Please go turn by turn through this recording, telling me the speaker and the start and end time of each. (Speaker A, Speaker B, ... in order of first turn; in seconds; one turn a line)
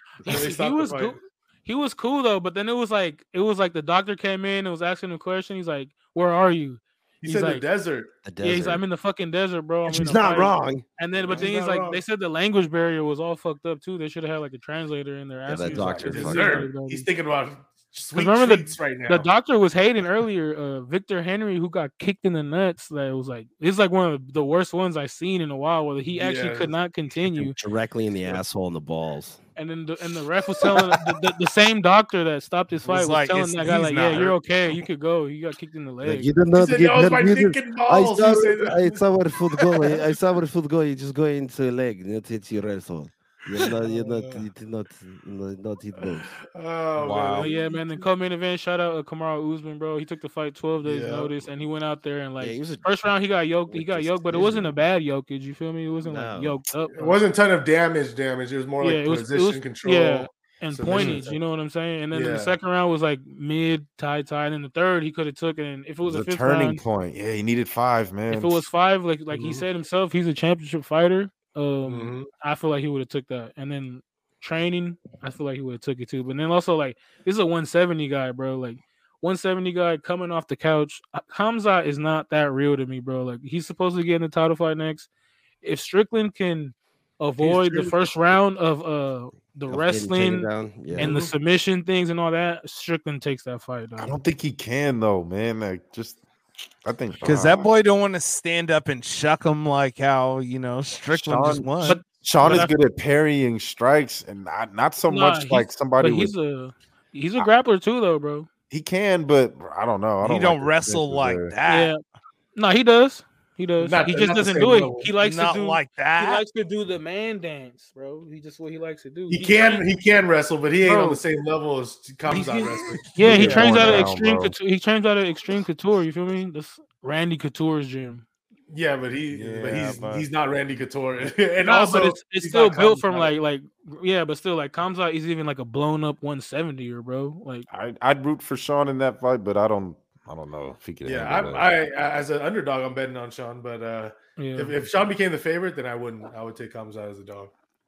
Speaker A: 0.2-1.2
Speaker B: 0.2-7.7
Speaker A: 7.2-8.1
Speaker C: 8.2-8.8
Speaker B: 8.4-17.1
Speaker C: 9.9-10.8
Speaker A: 11.2-12.0
Speaker C: 15.5-16.7
Speaker A: 15.7-19.3
Speaker B: 18.1-27.6
Speaker A: 26.1-26.7
Speaker C: 27.4-29.4
Speaker B: 29.6-36.3
Speaker D: 32.9-34.4
Speaker C: 36.0-46.3
Speaker A: 36.5-39.0
Speaker A: 43.6-44.4
Speaker A: 46.0-47.6
Speaker D: 47.0-47.5
Speaker B: 47.4-57.2
Speaker A: 50.8-51.3
Speaker C: 52.4-52.9
Speaker C: 53.7-54.7
Speaker C: 56.1-56.6
Speaker A: 57.0-61.4
Speaker B: 58.8-66.8
Speaker A: 62.1-62.6
Speaker E: 66.0-68.7
Speaker B: 68.3-85.1
Speaker A: 69.3-69.7
Speaker A: 71.8-72.3
Speaker B: 85.6-94.1
Speaker D: 87.4-87.8
Speaker A: 87.4-87.9
Speaker C: 89.7-91.1
Speaker A: 91.0-91.3
Speaker E: 94.0-96.2
Speaker E: 96.8-97.7
Speaker D: 97.2-102.0
Speaker E: 101.1-106.3
Speaker B: 101.9-102.8
Speaker B: 105.1-108.5
Speaker E: 108.7-111.5
Speaker D: 110.2-111.9
Speaker B: 111.7-112.0
Speaker B: 112.6-119.9
Speaker A: 113.8-115.1
Speaker D: 115.2-116.4
Speaker A: 119.3-124.0
Speaker B: 120.8-121.2
Speaker B: 122.3-128.2
Speaker E: 123.2-124.5
Speaker D: 123.2-124.0
Speaker A: 128.7-133.3
Speaker D: 129.3-130.3
Speaker B: 131.6-137.7
Speaker E: 137.7-141.7
Speaker A: 141.0-147.5
Speaker B: 144.4-144.8